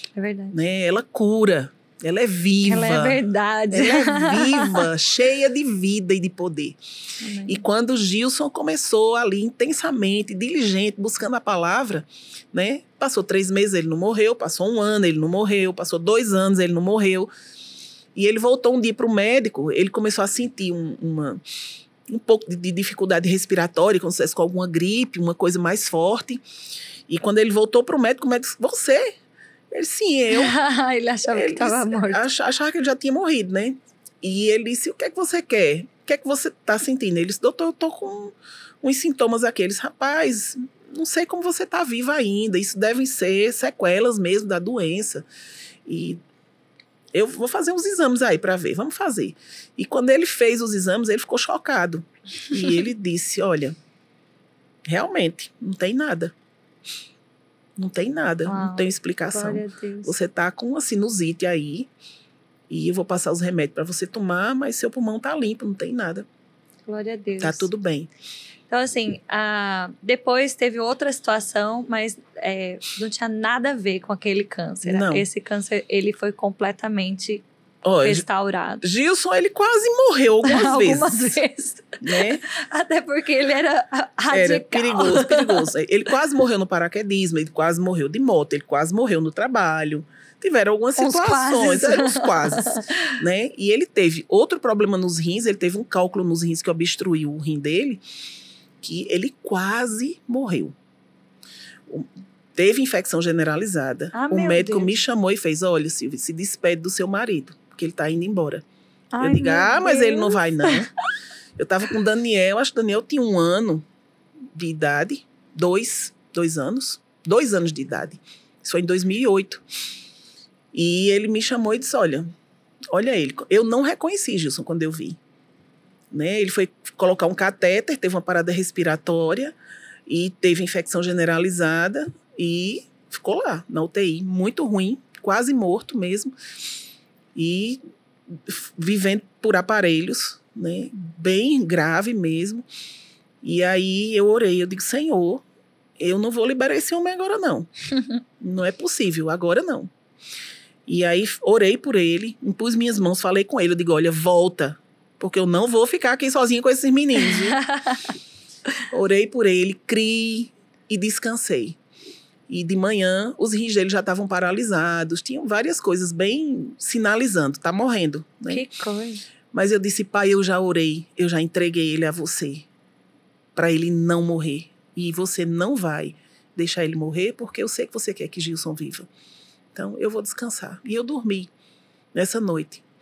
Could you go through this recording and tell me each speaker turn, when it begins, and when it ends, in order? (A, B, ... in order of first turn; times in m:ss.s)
0:00.2-0:00.6 A
0:00.5-0:06.8 B
0:02.6-0:04.9 A
0:07.2-0:07.6 A
0:07.4-0:17.3 B
0:18.1-0:21.4 B
0:22.1-0:26.4 B
0:27.1-0:29.1 B
0:29.7-0:30.5 B
0:30.3-0:32.2 A
0:31.3-0:45.3 B
0:45.9-0:46.2 B
0:47.1-0:53.7 B
0:54.9-0:56.3 B
0:57.8-1:01.9 B
0:58.4-1:00.1 A
1:02.7-1:06.3 B
1:06.9-1:07.7 A
1:07.4-1:08.1 B
1:08.7-1:17.4 A
1:14.8-1:15.2 B
1:17.8-1:18.2 B
1:18.0-1:18.8 A
1:18.8-1:21.4 B
1:20.4-1:25.7 A
1:22.0-1:22.4 B
1:24.3-1:38.0 B
1:31.0-1:33.2 A
1:38.8-1:40.8 B
1:41.9-1:48.6 B
1:44.1-1:45.0 A
1:49.1-1:50.8 A
1:49.2-1:50.9 B
1:51.6-1:53.8 B
1:54.6-1:59.6 B
2:00.7-2:02.3 B
2:02.9-2:05.2 B
2:06.1-2:09.6 B
2:10.1-2:16.3 B
2:17.4-2:22.6 B
2:23.4-2:25.4 B
2:26.0-2:27.7 B
2:28.4-2:29.9 B
2:30.9-2:37.6 B
2:37.2-2:38.1 A
2:38.9-2:41.8 B
2:42.5-2:48.6 B
2:48.5-2:49.2 A
2:49.5-2:52.7 B
2:53.6-2:59.1 B
2:59.7-3:01.5 B
3:02.1-3:02.8 B